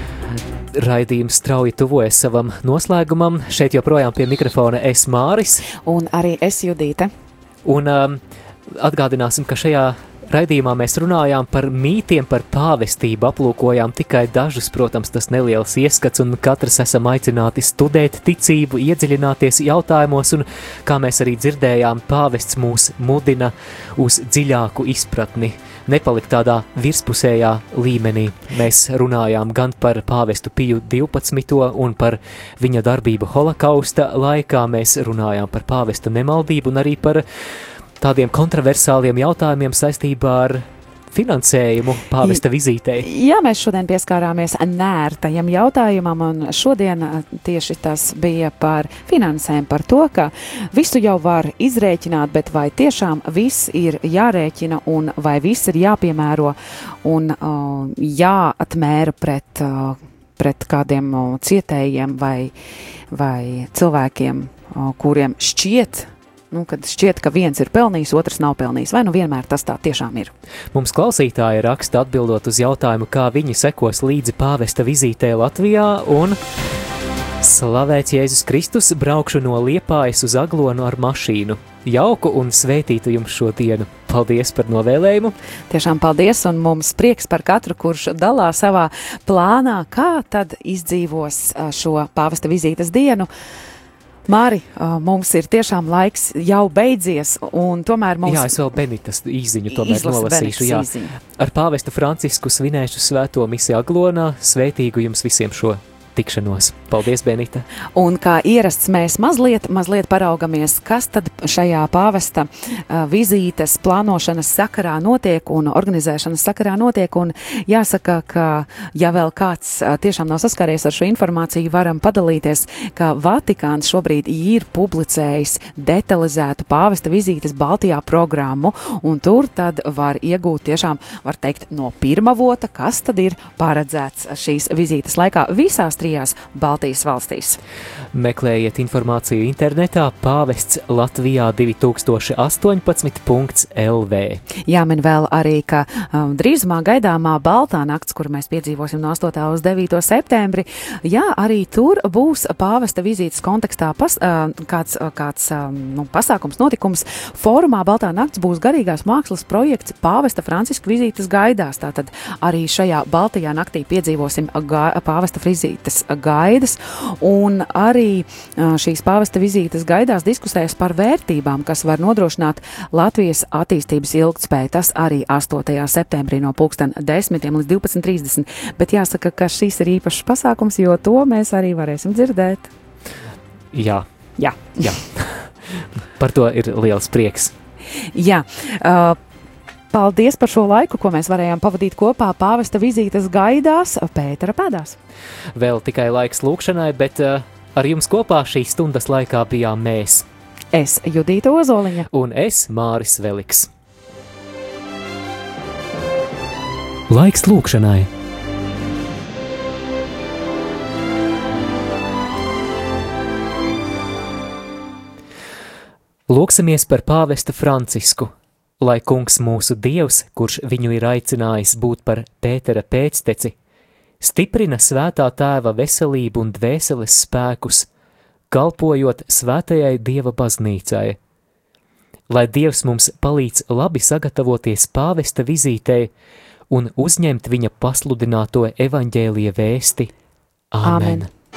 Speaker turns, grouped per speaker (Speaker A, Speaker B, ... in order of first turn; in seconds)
Speaker A: 0.7-5.6, 7.6-8.2, 8.7-37.2, 38.0-43.0, 70.7-76.4, 77.4-85.3, 98.2-107.7, 138.1-144.4, 183.7-184.1, 184.7-185.5, 186.2-187.5, 195.6-200.2, 202.1-203.7, 207.1-208.1, 216.3-223.5, 224.2-227.9, 228.5-231.2, 232.3-236.1, 236.7-240.1, 240.7-241.3
Speaker B: 5.8-7.1, 43.0-62.5, 63.1-70.3, 85.7-93.3, 94.3-98.5, 99.7-101.1, 107.9-137.6, 144.7-182.7, 184.4-184.7, 188.1-189.2, 189.9-194.9, 200.7-202.1, 240.8-241.3